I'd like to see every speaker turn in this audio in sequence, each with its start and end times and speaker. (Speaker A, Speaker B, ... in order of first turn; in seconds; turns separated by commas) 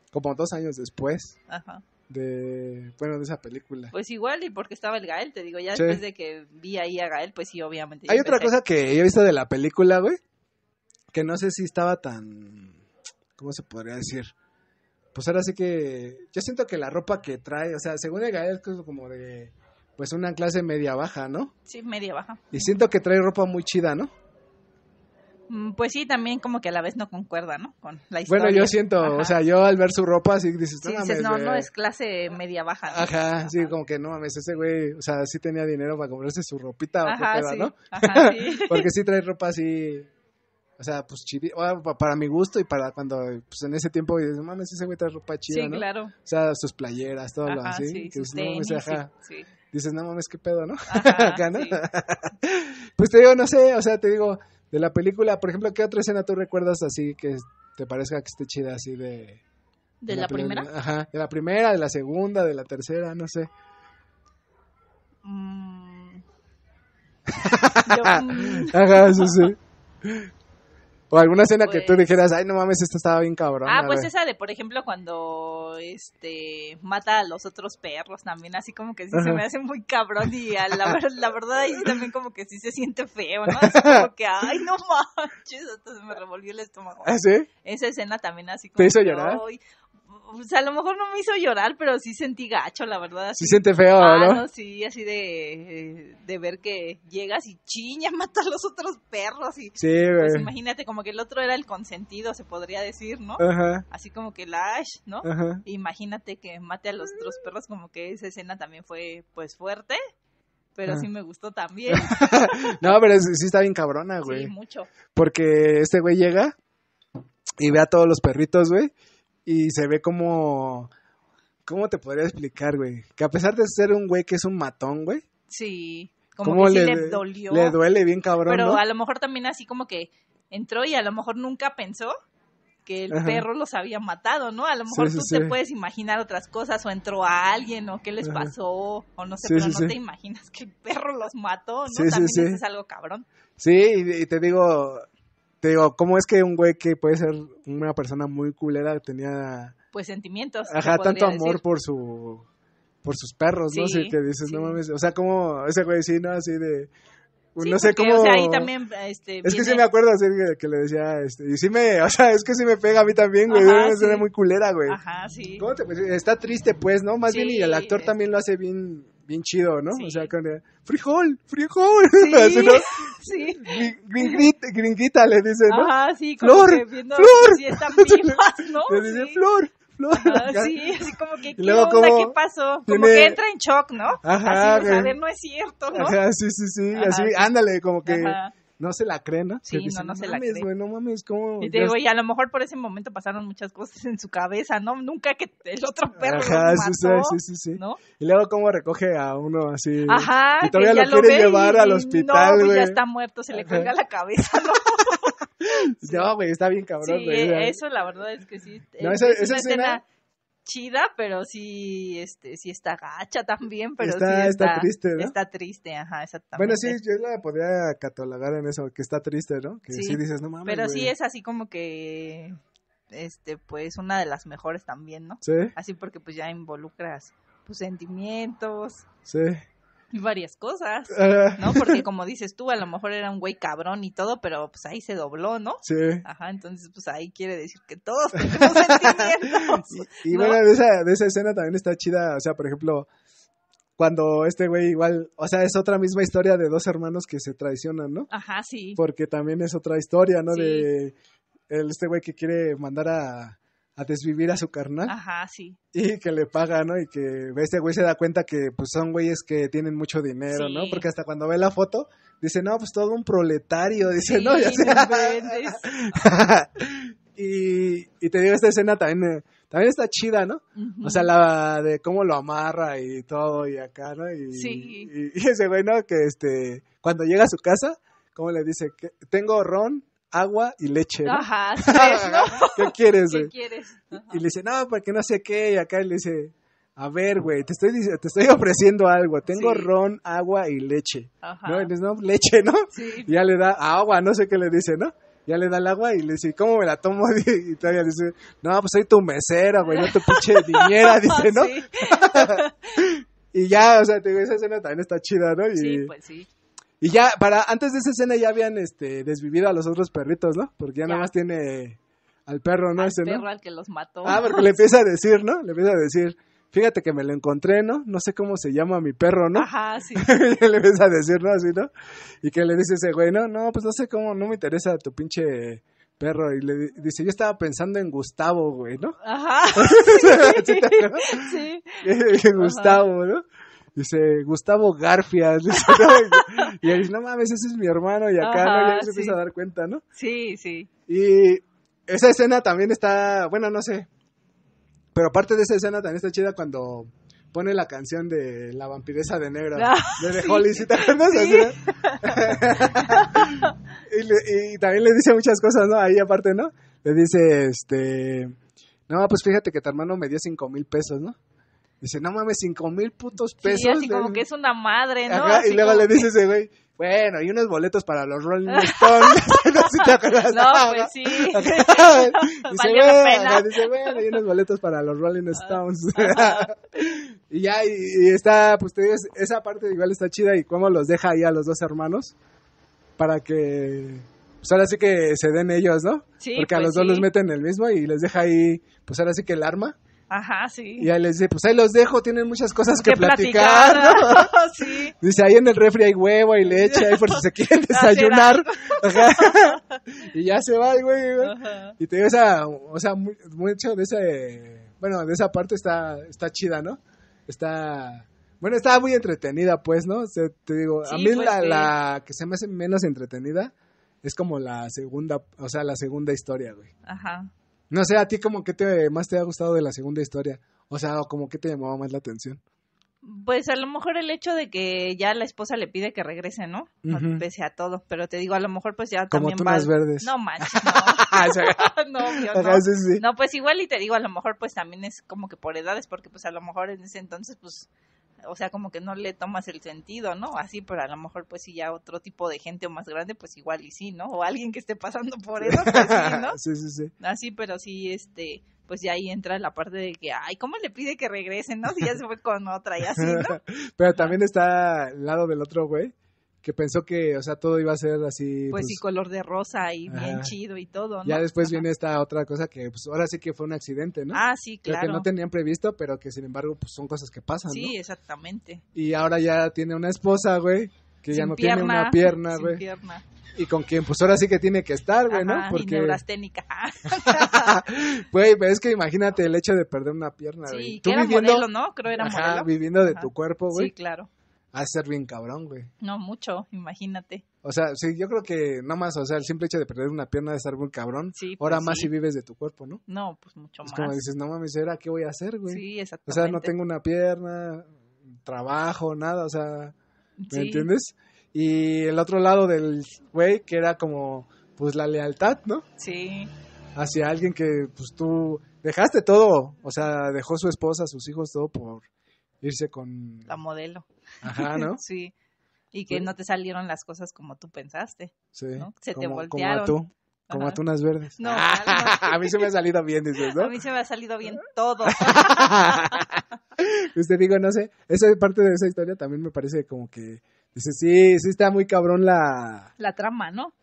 Speaker A: 0.1-1.4, Speaker B: 1.5-1.8, Speaker A: 2.1-3.9, Speaker B: 3.9-8.5, Speaker A: 5.7-6.0, Speaker A: 8.1-10.2, Speaker A: 11.1-12.8, Speaker A: 13.4-14.3, Speaker A: 15.2-21.5, Speaker B: 21.7-22.7, Speaker A: 22.5-24.1, Speaker B: 25.5-29.4, Speaker A: 28.3-31.7, Speaker B: 30.8-33.7, Speaker A: 32.9-40.1, Speaker B: 37.0-38.9, Speaker A: 40.8-49.1, Speaker B: 45.5-46.1, Speaker B: 47.5-49.5, Speaker A: 49.7-59.4, Speaker B: 50.9-51.8, Speaker B: 60.0-60.7, Speaker A: 60.1-63.5, Speaker B: 65.2-66.2, Speaker A: 67.3-70.3, Speaker B: 67.8-69.5, Speaker A: 71.1-74.1, Speaker B: 71.6-72.1, Speaker B: 73.7-110.0, Speaker A: 79.1-79.4, Speaker A: 83.5-84.1, Speaker A: 87.0-87.5, Speaker A: 88.8-89.4, Speaker A: 93.4-94.5, Speaker A: 99.8-100.5, Speaker A: 103.4-103.9, Speaker A: 105.2-105.6, Speaker B: 110.8-112.8, Speaker A: 111.9-114.5, Speaker B: 114.2-114.9, Speaker A: 115.2-116.6, Speaker A: 117.6-118.9, Speaker A: 119.5-120.9, Speaker A: 121.7-125.2, Speaker B: 125.5-127.8, Speaker A: 126.4-128.8, Speaker B: 128.5-132.2, Speaker B: 132.8-143.3, Speaker A: 133.1-133.4, Speaker A: 134.9-135.6, Speaker A: 138.2-138.5, Speaker A: 139.4-140.0, Speaker A: 141.9-142.6, Speaker A: 143.6-145.1, Speaker A: 145.6-149.8, Speaker B: 149.9-151.6, Speaker A: 150.7-152.5, Speaker A: 153.0-156.9, Speaker B: 153.7-154.8, Speaker A: 157.6-158.7, Speaker B: 157.6-159.8, Speaker A: 159.4-165.0, Speaker B: 163.5-164.3, Speaker B: 164.9-165.7, Speaker A: 165.6-183.4, Speaker B: 167.3-168.1, Speaker B: 169.9-170.3, Speaker B: 172.2-174.5, Speaker B: 175.7-179.4, Speaker B: 180.2-186.2, Speaker A: 184.2-185.2, Speaker A: 185.9-192.0, Speaker B: 186.9-187.5, Speaker B: 188.1-188.5, Speaker B: 189.7-190.7, Speaker B: 191.6-198.0, Speaker A: 196.2-203.0, Speaker B: 200.1-205.4, Speaker A: 203.5-203.9, Speaker A: 205.1-207.8, Speaker B: 206.0-206.3, Speaker B: 207.0-210.0, Speaker A: 209.0-210.0, Speaker B: 210.7-217.0, Speaker A: 214.0-215.3, Speaker A: 216.6-221.1, Speaker B: 219.9-222.6, Speaker B: 223.1-229.1, Speaker A: 225.4-225.7, Speaker A: 229.3-229.6, Speaker B: 230.1-240.6, Speaker A: 231.1-232.0, Speaker A: 235.8-236.2, Speaker A: 238.4-243.1, Speaker A: 244.0-248.3, Speaker B: 248.3-249.0, Speaker A: 249.0-251.2, Speaker B: 250.5-250.9, Speaker A: 251.7-255.2, Speaker B: 255.1-255.8, Speaker A: 255.9-283.5, Speaker B: 260.5-261.1, Speaker B: 264.2-266.2, Speaker B: 270.8-271.3, Speaker B: 274.5-275.1, Speaker B: 281.3-284.4, Speaker A: 284.1-306.1, Speaker B: 289.5-289.9, Speaker B: 291.4-291.9, Speaker B: 292.9-293.3, Speaker B: 299.9-303.0, Speaker B: 305.8-306.5, Speaker A: 307.0-313.4, Speaker B: 313.0-314.9, Speaker A: 314.2-321.9, Speaker B: 319.6-320.3, Speaker A: 322.4-329.2, Speaker B: 329.2-333.0, Speaker A: 329.7-333.4, Speaker A: 333.9-340.0, Speaker B: 335.9-336.8, Speaker B: 338.4-339.4, Speaker B: 340.2-340.9, Speaker A: 341.1-344.1, Speaker A: 345.1-358.6, Speaker B: 349.8-353.7, Speaker A: 359.1-361.4, Speaker A: 362.0-364.4, Speaker B: 363.6-366.3, Speaker A: 365.3-382.4, Speaker B: 368.7-374.3, Speaker B: 375.6-377.2, Speaker A: 383.2-390.0, Speaker B: 386.4-387.3, Speaker B: 390.3-391.1, Speaker A: 391.0-416.9, Speaker B: 393.0-395.1, Speaker B: 396.8-400.0, Speaker B: 401.4-401.9, Speaker B: 411.1-411.9, Speaker B: 417.1-417.5, Speaker A: 417.9-422.6, Speaker B: 423.2-437.9, Speaker A: 427.0-427.4, Speaker A: 429.3-433.2, Speaker B: 438.4-446.6, Speaker A: 445.6-447.1, Speaker B: 447.2-453.6, Speaker A: 453.1-459.0, Speaker B: 458.7-461.8, Speaker A: 460.1-460.5, Speaker A: 461.2-467.9, Speaker B: 464.3-465.3, Speaker B: 467.7-468.8, Speaker A: 468.9-472.8, Speaker B: 471.3-473.2, Speaker A: 473.6-476.2, Speaker B: 475.3-477.8, Speaker A: 477.1-483.9, Speaker B: 480.7-484.3, Speaker A: 484.7-485.9, Speaker B: 486.0-487.4, Speaker A: 487.6-493.0, Speaker B: 491.4-492.1, Speaker B: 493.1-494.2, Speaker A: 493.8-497.9, Speaker B: 495.7-496.7, Speaker A: 498.4-499.9, Speaker B: 500.4-500.9, Speaker A: 500.5-505.9, Speaker B: 506.0-506.5, Speaker A: 506.9-512.1, Speaker A: 512.6-513.5, Speaker B: 513.5-515.3, Speaker A: 514.4-515.0, Speaker B: 515.9-520.0, Speaker A: 518.5-523.8, Speaker B: 520.5-520.8, Speaker B: 521.4-522.7, Speaker B: 523.5-526.3, Speaker A: 525.1-532.9, Speaker B: 533.0-533.7